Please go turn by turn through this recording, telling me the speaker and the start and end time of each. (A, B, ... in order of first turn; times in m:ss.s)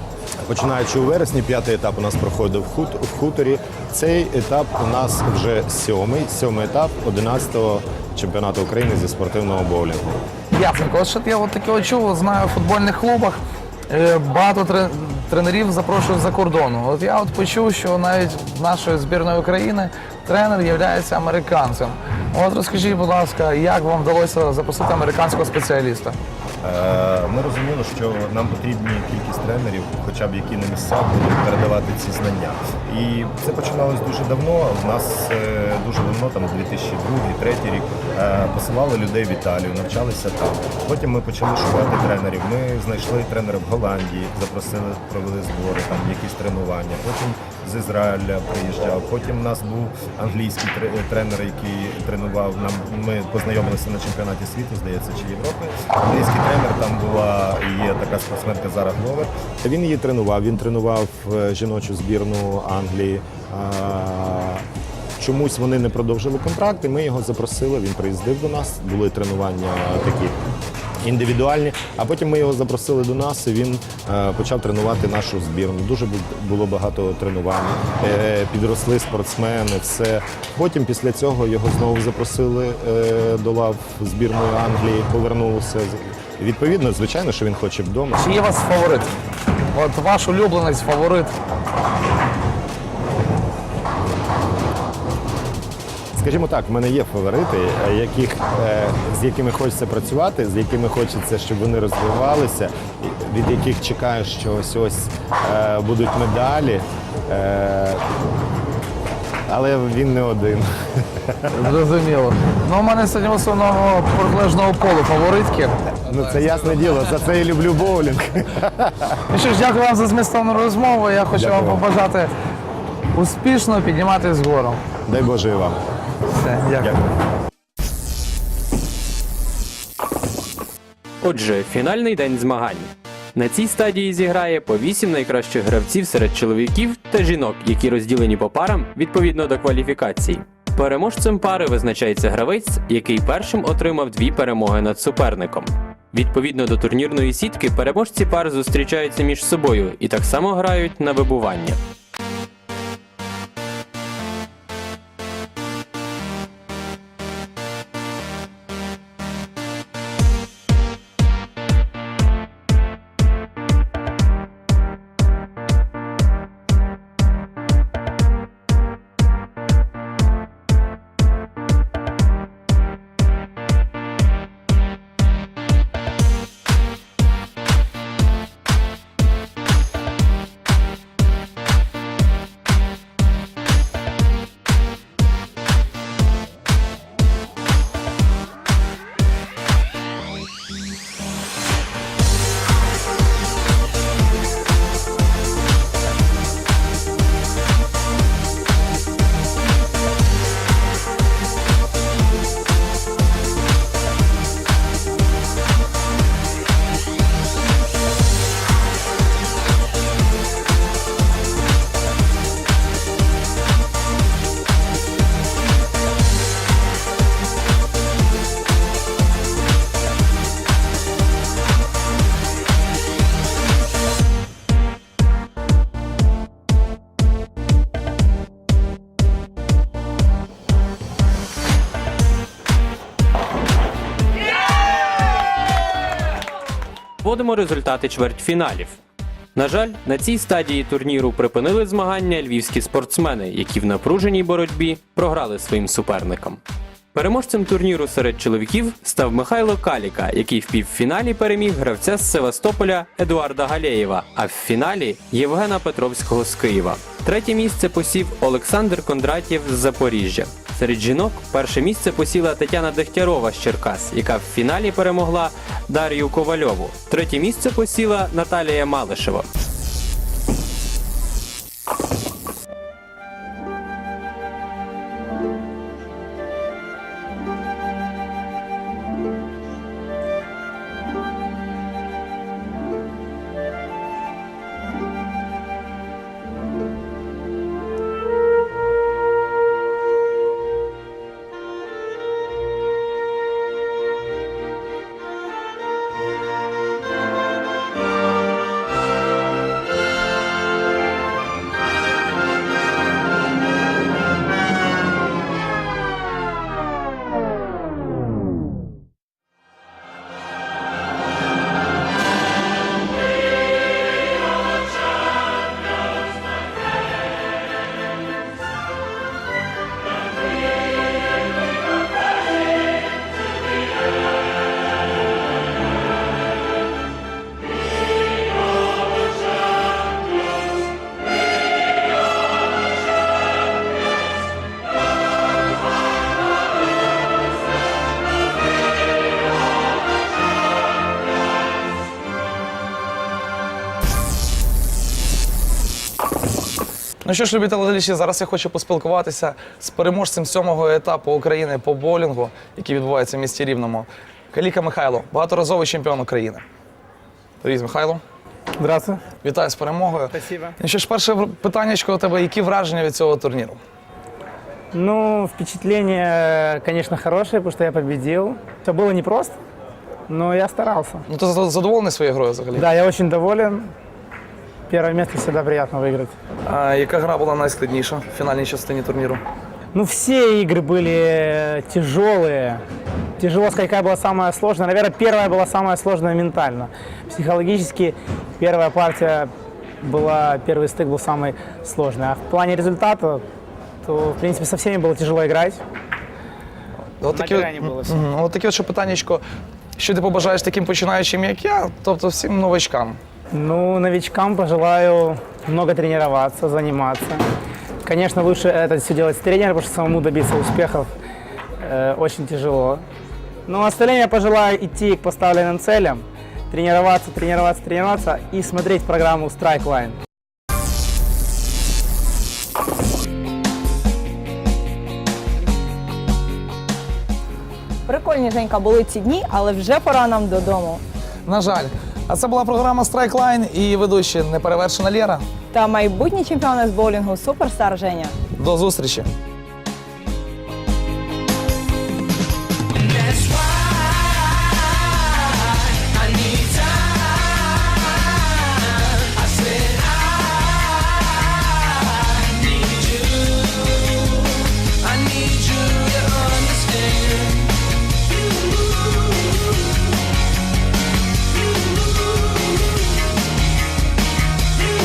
0:00.4-0:10.2 A
0:10.5-0:26.2 B
0:26.6-1:04.6 A
1:05.2-1:10.4 A
1:11.0-1:28.3 A
1:28.1-1:29.1 B
1:29.7-1:31.4 B
1:36.1-1:48.0 A
1:49.5-1:51.6 A
1:51.5-1:56.2 B
1:56.0-1:59.2 A
1:59.3-2:02.3 B
2:01.3-2:01.8 A
2:03.1-2:04.8 B
2:05.1-2:05.8 A
2:06.3-2:06.9 B
2:06.8-2:07.0 A
2:11.2-2:31.8 C
3:57.2-3:59.0 C
3:59.5-4:06.6 C
4:07.1-4:29.5 C
5:47.2-5:56.6 B
5:57.6-5:58.2 B
5:58.8-5:59.2 D
5:59.4-6:03.8 B
6:00.3-6:00.8 D
6:04.9-6:09.5 D
6:10.3-6:11.2 D
6:11.3-6:12.9 B
6:12.7-6:13.9 D
6:14.9-6:16.3 D
6:16.6-6:19.4 B
6:19.9-6:22.8 D
6:23.4-6:29.5 D
6:30.0-6:33.4 D
6:34.0-6:35.8 D
6:37.2-6:39.4 B
6:37.3-6:38.2 D
6:40.0-6:43.2 B
6:43.5-6:47.4 D
6:48.0-6:51.1 D
6:51.8-6:53.0 D
6:53.7-7:00.2 D
7:08.0-7:11.0 E
7:11.4-7:15.4 B
7:15.7-7:18.4 E
7:18.5-7:19.3 B
7:36.8-7:37.1 C